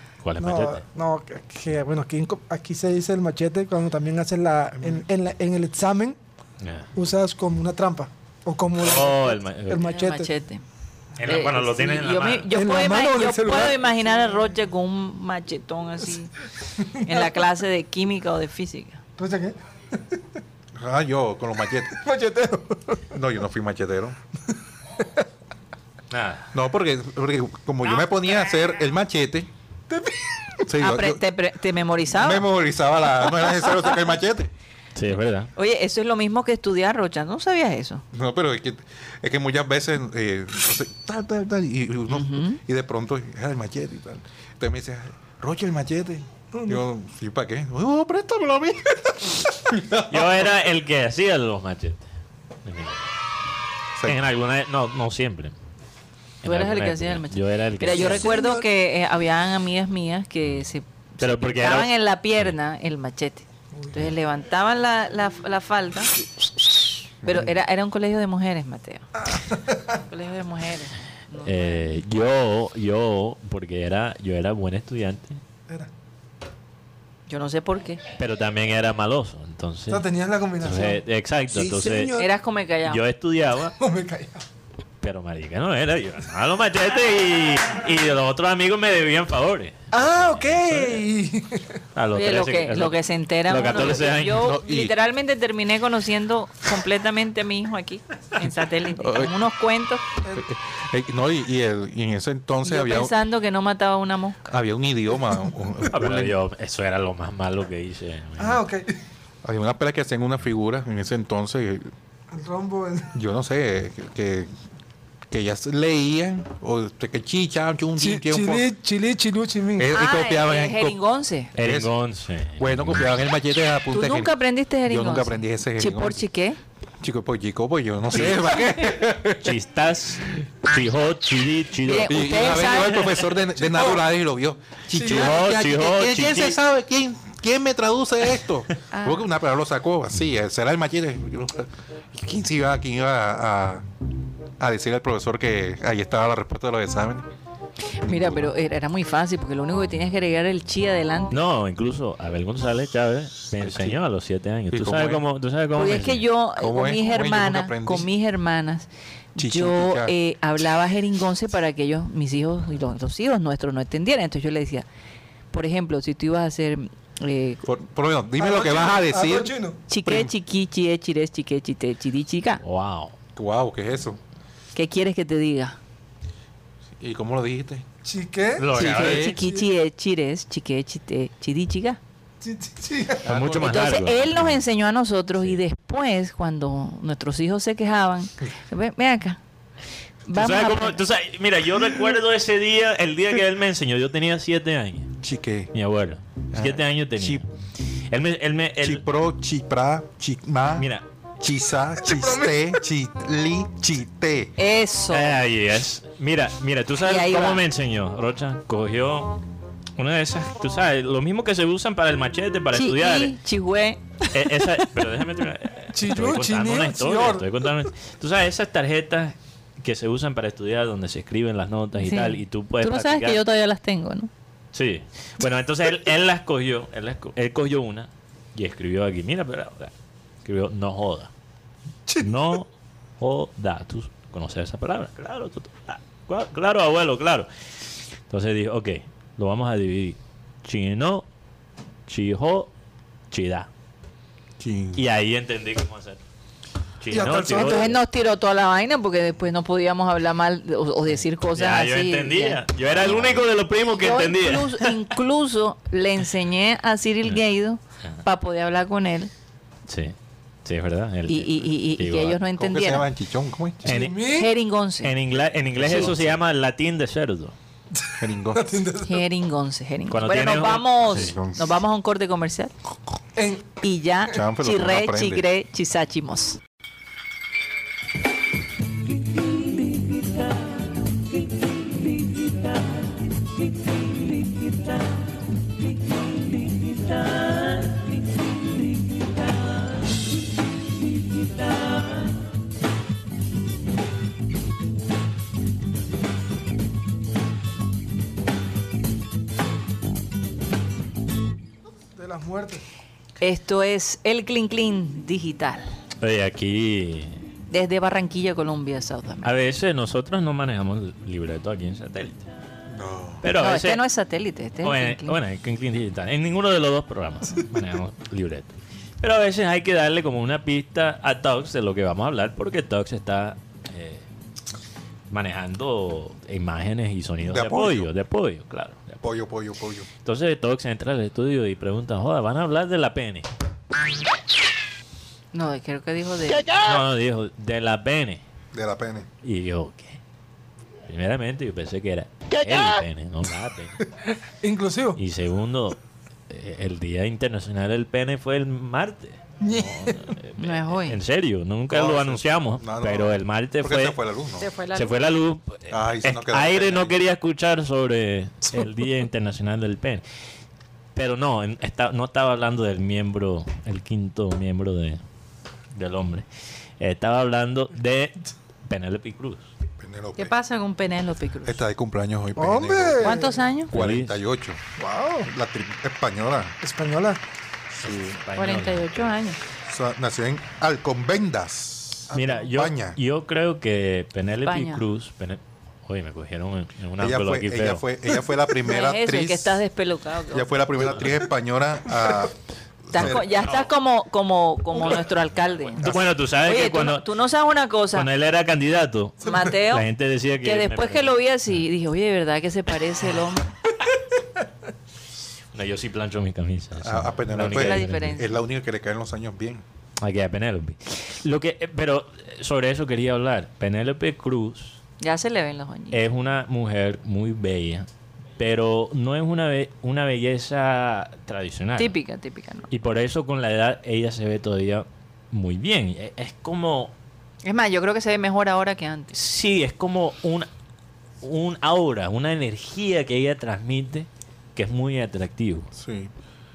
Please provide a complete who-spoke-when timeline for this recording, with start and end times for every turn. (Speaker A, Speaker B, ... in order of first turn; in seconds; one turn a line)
Speaker A: 0.2-0.8
Speaker B: 0.4-6.2
Speaker C: 4.8-5.0
Speaker A: 6.6-6.9
Speaker B: 7.0-10.3
Speaker A: 8.8-9.9
Speaker D: 9.8-10.6
Speaker A: 11.2-12.5
Speaker D: 11.2-16.3
Speaker B: 12.5-13.9
Speaker B: 16.8-17.3
Speaker D: 17.0-19.0
Speaker B: 19.2-20.2
Speaker C: 20.8-22.0
Speaker B: 21.9-23.1
Speaker C: 23.1-24.2
Speaker A: 26.1-26.5
Speaker C: 26.5-29.5
Speaker B: 29.9-30.6
Speaker C: 30.7-31.2
Speaker D: 30.8-32.5
Speaker C: 32.1-34.5
Speaker A: 35.0-35.5
Speaker D: 35.5-38.0
Speaker C: 38.1-50.4
Speaker D: 42.1-42.6
Speaker B: 46.5-46.8
Speaker A: 50.1-52.0
Speaker A: 52.6-53.1
Speaker A: 54.1-55.5
Speaker A: 56.4-58.4
Speaker D: 56.4-69.1
Speaker B: 58.0-58.6
Speaker A: 61.2-62.5
Speaker C: 67.2-67.5
Speaker B: 69.3-70.0
Speaker D: 70.1-71.9
Speaker A: 71.4-75.4
Speaker D: 77.3-78.0
Speaker A: 78.2-80.1
Speaker B: 79.9-81.0
Speaker A: 80.6-82.3
Speaker B: 81.5-82.2
Speaker D: 82.1-83.0
Speaker A: 82.8-83.8
Speaker B: 83.8-84.4
Speaker A: 85.0-91.1
Speaker B: 89.9-91.8
Speaker A: 92.0-94.5
Speaker D: 92.1-100.0
Speaker C: 94.1-95.0
Speaker C: 99.0-99.4
Speaker C: 100.3-103.1
Speaker D: 102.6-104.4
Speaker C: 104.5-106.4
Speaker A: 105.9-108.6
Speaker B: 108.4-109.0
Speaker C: 109.4-111.9
Speaker B: 112.3-113.1
Speaker C: 113.1-114.5
Speaker C: 115.3-118.7
Speaker B: 118.0-119.9
Speaker C: 119.8-121.0
Speaker D: 119.9-121.5
Speaker C: 121.6-121.9
Speaker A: 121.6-123.1
Speaker C: 122.6-124.3
Speaker D: 123.9-126.6
Speaker C: 124.8-126.2
Speaker C: 127.0-129.6
Speaker A: 128.1-128.5
Speaker A: 129.4-133.2
Speaker D: 131.8-133.2
Speaker C: 132.0-143.9
Speaker B: 134.9-135.4
Speaker A: 135.0-136.6
Speaker D: 138.9-139.2
Speaker C: 144.6-147.3
Speaker D: 148.0-151.4
Speaker C: 148.1-148.5
Speaker A: 151.3-156.3
Speaker C: 153.6-154.0
Speaker C: 154.7-155.2
Speaker D: 155.8-164.9
Speaker C: 156.6-158.1
Speaker C: 159.4-160.2
Speaker D: 165.5-167.6
Speaker C: 167.6-169.5
Speaker B: 168.4-169.8
Speaker D: 169.9-172.6
Speaker C: 170.1-170.3
Speaker A: 172.6-173.1
Speaker C: 173.3-174.2
Speaker D: 174.8-175.8
Speaker C: 177.0-177.8
Speaker B: 178.0-178.7
Speaker A: 178.6-179.4
Speaker C: 178.7-179.3
Speaker D: 178.8-182.0
Speaker B: 179.2-179.6
Speaker B: 182.4-183.3
Speaker C: 183.2-184.0
Speaker A: 183.2-184.6
Speaker D: 183.6-189.4
Speaker D: 190.3-191.0
Speaker A: 190.3-195.1
Speaker C: 195.2-195.7
Speaker A: 195.7-197.5
Speaker C: 196.5-197.4
Speaker A: 198.1-199.0
Speaker C: 198.8-204.5
Speaker A: 200.8-201.1
Speaker B: 202.1-202.5
Speaker D: 204.6-205.4
Speaker A: 205.1-209.4
Speaker D: 207.0-207.6
Speaker A: 210.0-213.3
Speaker D: 212.7-214.6
Speaker A: 214.3-223.4
Speaker B: 215.9-217.5
Speaker D: 222.0-224.3
Speaker A: 224.7-229.9
Speaker A: 230.4-231.3
Speaker A: 232.2-232.7
Speaker A: 233.2-237.5
Speaker A: 238.3-241.2
Speaker A: 242.1-242.7
Speaker A: 243.3-243.7
Speaker C: 244.6-245.0
Speaker A: 245.0-246.2
Speaker A: 247.0-248.0
Speaker B: 247.1-247.9
Speaker D: 247.4-253.4
Speaker A: 251.5-255.0
Speaker D: 254.0-259.3
Speaker A: 259.9-262.4
Speaker D: 261.3-263.1
Speaker C: 262.6-263.9
Speaker B: 263.8-264.5
Speaker A: 263.9-264.2
Speaker D: 264.2-265.1
Speaker A: 265.0-267.5
Speaker C: 265.8-266.4
Speaker D: 265.8-266.1
Speaker C: 268.2-268.7
Speaker B: 268.5-269.2
Speaker D: 269.0-272.7
Speaker A: 270.1-271.3
Speaker C: 271.0-271.8
Speaker B: 273.4-273.7
Speaker D: 273.8-276.6
Speaker C: 274.3-275.4
Speaker A: 287.3-287.6
Speaker B: 302.2-302.8
Speaker D: 303.4-305.9
Speaker A: 306.2-307.4
Speaker D: 307.7-309.5
Speaker A: 309.4-312.4
Speaker C: 312.9-313.4
Speaker A: 313.4-314.0
Speaker D: 313.6-315.4
Speaker A: 314.8-324.2
Speaker A: 325.3-329.3
Speaker C: 327.4-328.1
Speaker C: 329.2-330.1
Speaker A: 330.2-333.5
Speaker D: 335.5-336.8
Speaker A: 336.8-338.4
Speaker C: 338.7-339.3
Speaker A: 339.4-340.2
Speaker A: 341.1-344.1
Speaker B: 344.6-345.2
Speaker A: 345.2-354.2
Speaker B: 349.6-350.4
Speaker D: 350.6-351.2
Speaker C: 351.9-354.7
Speaker D: 354.6-355.2
Speaker A: 354.9-360.2
Speaker C: 355.9-357.1
Speaker A: 361.1-365.2
Speaker A: 365.9-366.4
Speaker A: 367.0-369.7
Speaker C: 370.0-370.5
Speaker D: 370.4-371.8
Speaker C: 371.6-374.8
Speaker B: 372.6-373.6
Speaker D: 373.2-373.9
Speaker A: 373.9-374.4
Speaker B: 375.0-375.5
Speaker C: 375.4-376.8
Speaker B: 376.8-377.4
Speaker A: 378.0-379.3
Speaker D: 378.6-379.6
Speaker C: 379.9-383.2
Speaker A: 382.3-388.0
Speaker D: 384.6-385.0
Speaker C: 387.2-389.8
Speaker D: 388.8-390.7
Speaker C: 390.5-392.6
Speaker C: 393.1-393.7
Speaker D: 393.1-398.3
Speaker A: 393.2-393.7
Speaker A: 396.0-397.3
Speaker A: 398.1-401.3
Speaker D: 399.4-400.1
Speaker D: 400.6-403.6
Speaker A: 405.7-408.4
Speaker C: 407.0-409.8
Speaker D: 407.6-408.5
Speaker A: 410.2-415.0
Speaker D: 415.2-416.2
Speaker A: 416.1-418.1
Speaker A: 418.6-422.1
Speaker D: 422.0-422.9
Speaker A: 422.9-427.1
Speaker D: 427.6-429.3
Speaker A: 429.3-430.7
Speaker A: 431.4-435.9
Speaker C: 435.9-436.3